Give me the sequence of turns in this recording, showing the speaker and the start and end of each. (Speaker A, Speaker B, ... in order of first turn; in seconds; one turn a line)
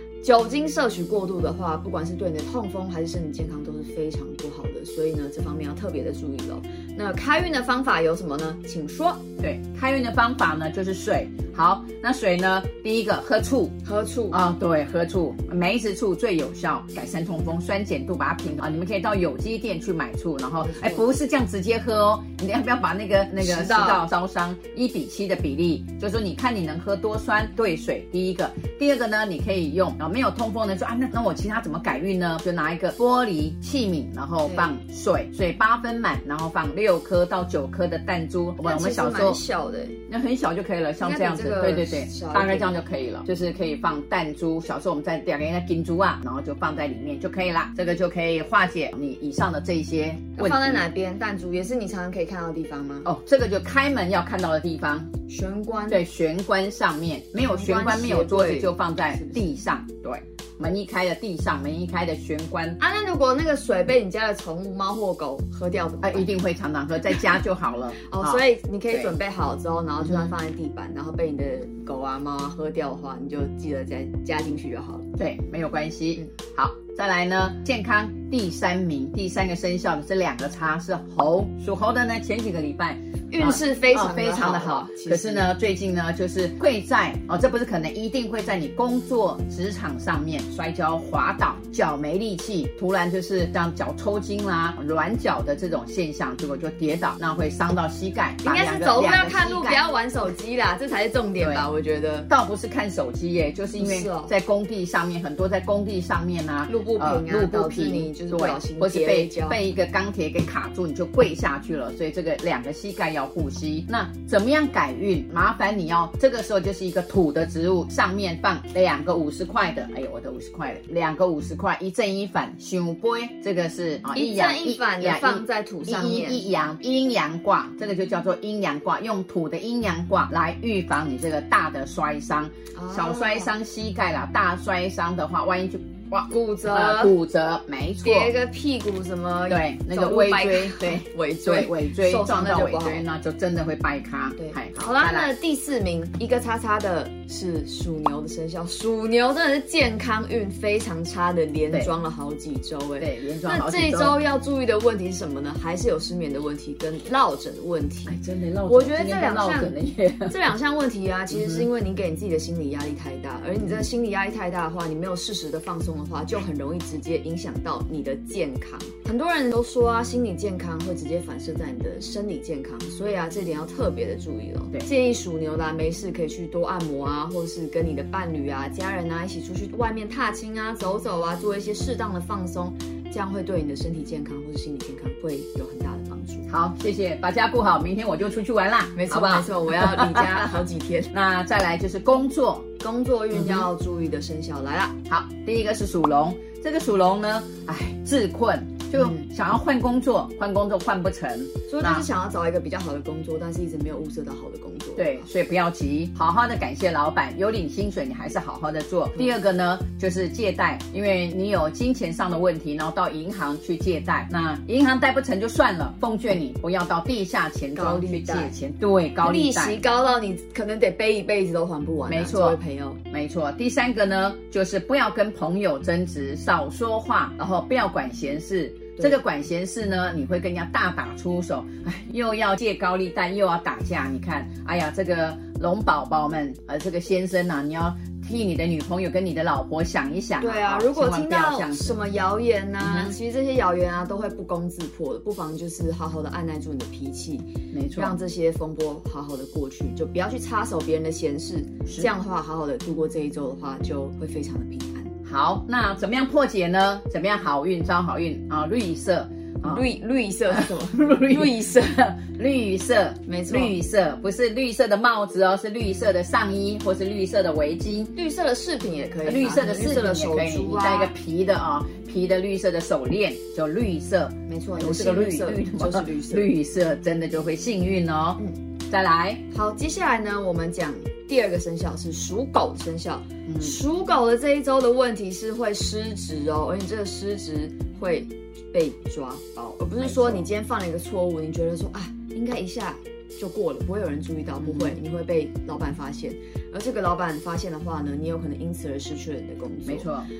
Speaker A: 0.2-9.2
Speaker B: 9.4-13.8
Speaker A: 13.8-14.4
Speaker B: 14.3-39.4
Speaker A: 20.6-21.0
Speaker A: 23.4-24.0
Speaker A: 34.4-34.7
Speaker A: 38.6-40.0
Speaker B: 40.1-50.8
Speaker A: 41.0-42.8
Speaker A: 50.4-53.1
Speaker B: 53.0-55.1
Speaker A: 55.3-56.0
Speaker B: 55.9-62.8
Speaker A: 57.4-59.5
Speaker A: 62.8-66.3
Speaker B: 66.0-69.1
Speaker A: 68.0-75.0
Speaker B: 70.0-70.3
Speaker B: 75.2-99.8
Speaker A: 83.3-85.5
Speaker A: 98.4-102.3
Speaker B: 101.4-101.7
Speaker B: 102.3-138.3
Speaker A: 103.8-104.3
Speaker A: 106.7-109.6
Speaker A: 124.1-126.4
Speaker A: 132.7-133.5
Speaker A: 136.3-137.2
Speaker A: 138.0-143.0
Speaker B: 139.5-145.3
Speaker A: 144.4-159.8
Speaker B: 153.0-154.2
Speaker B: 158.1-160.3
Speaker A: 160.3-186.5
Speaker B: 161.3-161.7
Speaker B: 186.5-190.6
Speaker A: 188.9-191.1
Speaker B: 191.1-192.7
Speaker A: 192.8-194.9
Speaker B: 193.3-193.7
Speaker B: 195.1-202.0
Speaker A: 198.9-199.3
Speaker A: 201.7-205.3
Speaker B: 205.0-219.8
Speaker A: 217.7-218.5
Speaker A: 219.2-223.0
Speaker B: 222.1-222.6
Speaker B: 223.1-242.0
Speaker A: 240.4-255.1
Speaker B: 242.8-243.1
Speaker B: 247.7-248.2
Speaker B: 255.2-259.8
Speaker A: 259.6-262.1
Speaker B: 260.5-268.1
Speaker A: 263.2-263.7
Speaker A: 268.1-271.1
Speaker B: 269.2-279.4
Speaker A: 274.5-276.5
Speaker A: 279.5-300.1
Speaker B: 283.4-283.8
Speaker B: 290.0-290.5
Speaker B: 294.6-295.0
Speaker B: 299.8-300.3